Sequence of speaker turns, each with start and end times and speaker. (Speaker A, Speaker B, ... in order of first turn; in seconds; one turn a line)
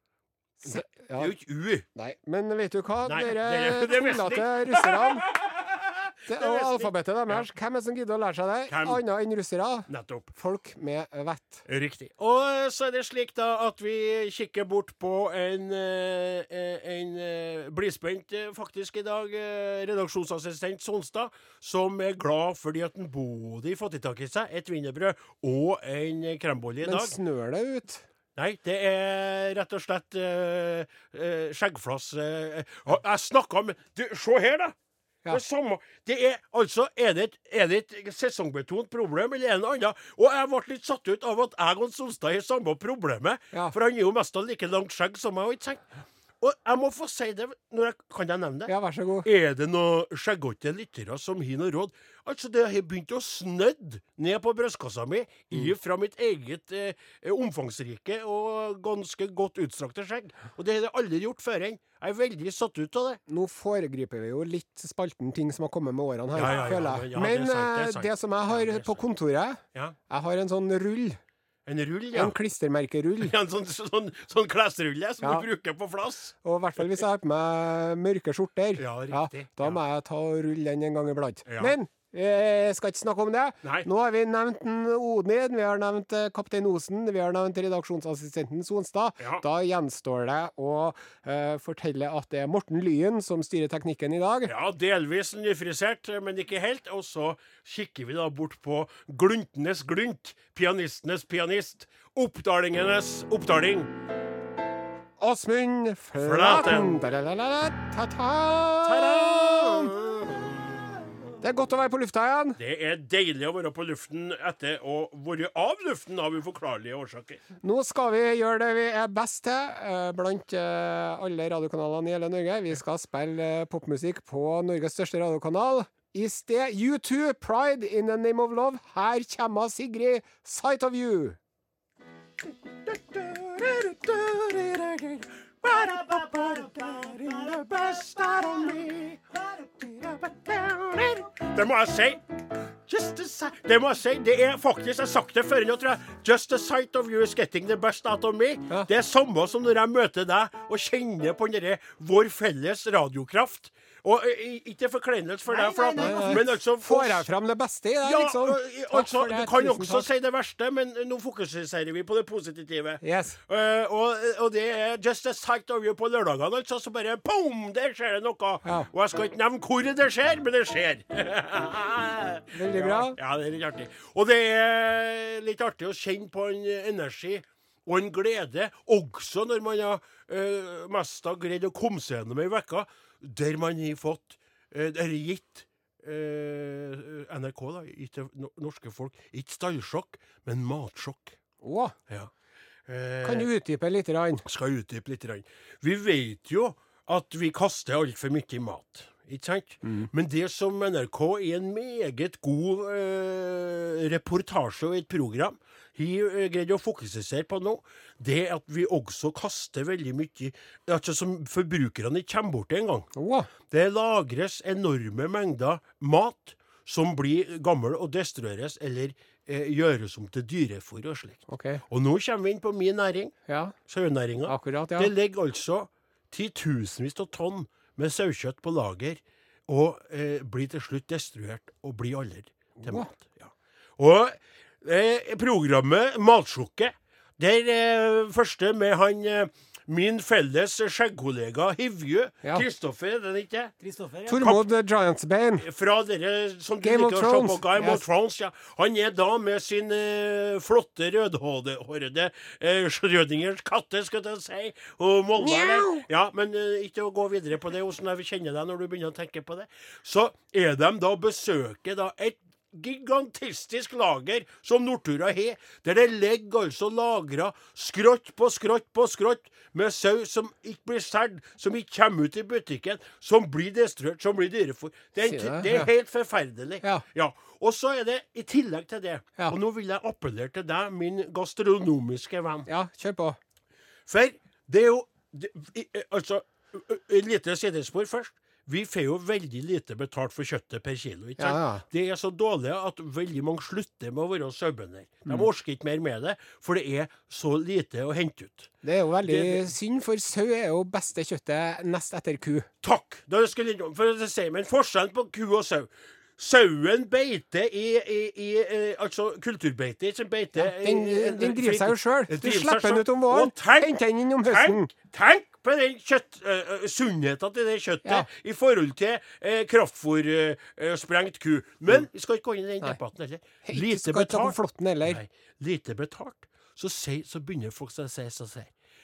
Speaker A: 0.6-1.3
Speaker B: 0.7-1.9
Speaker A: 1.9-5.3
Speaker B: 3.0-7.5
Speaker A: 6.3-11.7
Speaker B: 8.7-9.0
Speaker B: 9.9-10.3
Speaker B: 11.7-27.1
Speaker A: 26.8-28.1
Speaker B: 28.4-34.8
Speaker B: 35.3-45.9
Speaker B: 46.4-48.7
Speaker A: 48.7-49.3
Speaker B: 49.2-63.2
Speaker A: 63.3-71.2
Speaker B: 66.3-69.0
Speaker B: 71.7-72.3
Speaker A: 72.1-73.3
Speaker B: 73.2-76.4
Speaker A: 75.2-75.5
Speaker A: 76.4-94.5
Speaker B: 78.8-79.8
Speaker B: 81.5-81.8
Speaker B: 89.2-89.4
Speaker B: 94.5-103.9
Speaker A: 105.2-109.9
Speaker B: 106.2-107.0
Speaker B: 108.8-111.0
Speaker A: 111.4-112.6
Speaker B: 112.6-117.4
Speaker A: 117.6-131.4
Speaker B: 132.7-142.2
Speaker C: 135.8-137.9
Speaker B: 142.9-157.3
Speaker C: 155.5-156.4
Speaker A: 156.0-160.1
Speaker B: 158.0-191.4
Speaker A: 163.0-163.4
Speaker A: 172.5-173.2
Speaker A: 191.6-191.9
Speaker B: 192.9-193.5
Speaker A: 193.2-194.4
Speaker B: 194.4-213.1
Speaker A: 213.2-213.5
Speaker B: 213.7-223.3
Speaker A: 221.5-221.8
Speaker A: 223.5-223.8
Speaker B: 223.9-243.7
Speaker A: 224.5-225.1
Speaker A: 232.8-233.1
Speaker C: 243.8-244.5
Speaker A: 244.3-245.7
Speaker B: 245.6-282.7
Speaker A: 246.8-248.0
Speaker A: 255.4-256.1
Speaker A: 275.2-275.9
Speaker A: 282.7-283.4
Speaker B: 284.1-298.7
Speaker A: 291.4-291.8
Speaker A: 298.8-302.7
Speaker B: 299.2-299.7
Speaker B: 302.8-328.7
Speaker A: 310.6-314.9
Speaker A: 323.6-325.2